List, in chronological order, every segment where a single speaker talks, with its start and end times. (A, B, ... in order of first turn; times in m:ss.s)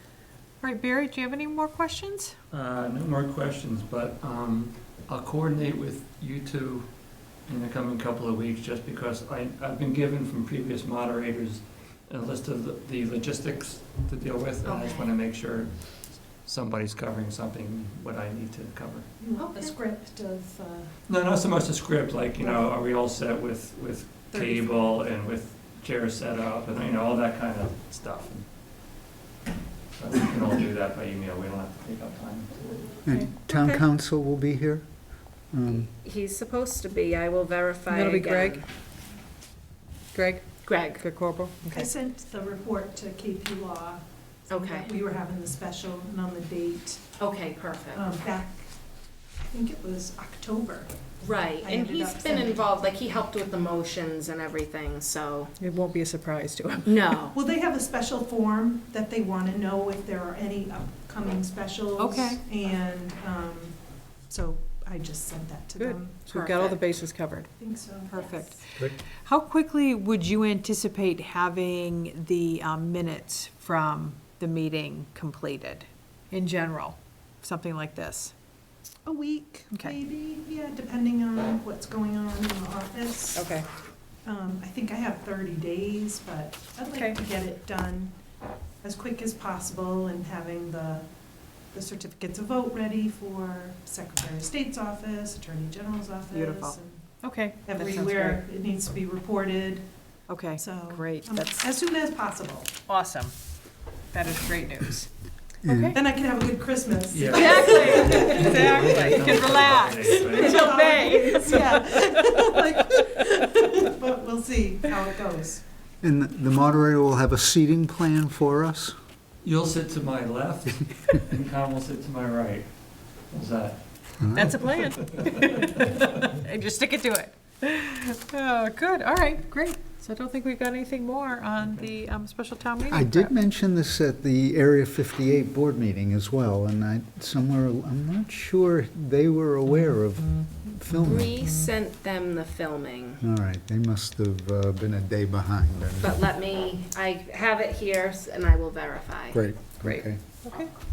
0:00.6-0:02.3 A
0:02.5-0:19.1 B
0:14.6-0:15.1 C
0:19.2-0:20.9 D
0:19.4-0:19.8 C
0:21.1-0:28.4 B
0:22.4-0:22.7 D
0:24.3-0:25.0 D
0:29.9-0:33.0 B
0:33.0-0:34.8 E
0:33.1-0:33.8 A
0:35.5-0:35.9 E
0:35.7-0:38.6 C
0:37.9-0:38.6 A
0:40.1-0:41.9 A
0:40.6-0:41.0 C
0:41.7-0:47.0 D
0:44.5-0:44.9 C
0:47.2-0:48.2 C
0:47.9-0:48.8 D
0:49.5-0:50.9 D
0:51.2-0:55.5 C
0:51.6-0:52.7 D
0:55.6-0:57.2 A
0:56.8-0:57.3 C
0:57.3-1:03.8 D
1:02.0-1:02.4 A
1:04.3-1:06.3 D
1:05.8-1:07.5 A
1:06.3-1:06.8 C
1:07.6-1:08.5 D
1:08.1-1:18.3 A
1:19.0-1:23.5 D
1:23.3-1:23.7 A
1:24.2-1:28.1 D
1:26.9-1:27.2 A
1:28.8-1:31.0 D
1:31.7-1:37.1 D
1:36.3-1:38.4 A
1:37.6-1:39.9 D
1:40.3-1:41.6 A
1:40.6-1:42.8 D
1:42.9-1:43.3 A
1:44.1-1:45.1 A
1:45.6-1:46.0 E
1:45.6-1:46.0 A
1:45.9-1:49.4 D
1:47.1-1:51.0 B
1:47.3-1:53.2 A
1:50.1-1:55.6 D
1:56.0-1:58.9 E
1:59.4-2:06.1 B
2:04.2-2:04.7 E
2:04.3-2:13.3 A
2:11.6-2:11.9 B
2:12.9-2:21.3 E
2:21.0-2:23.2 C
2:23.2-2:26.2 E
2:26.0-2:29.4 C
2:29.3-2:30.2 E
2:29.8-2:30.7 A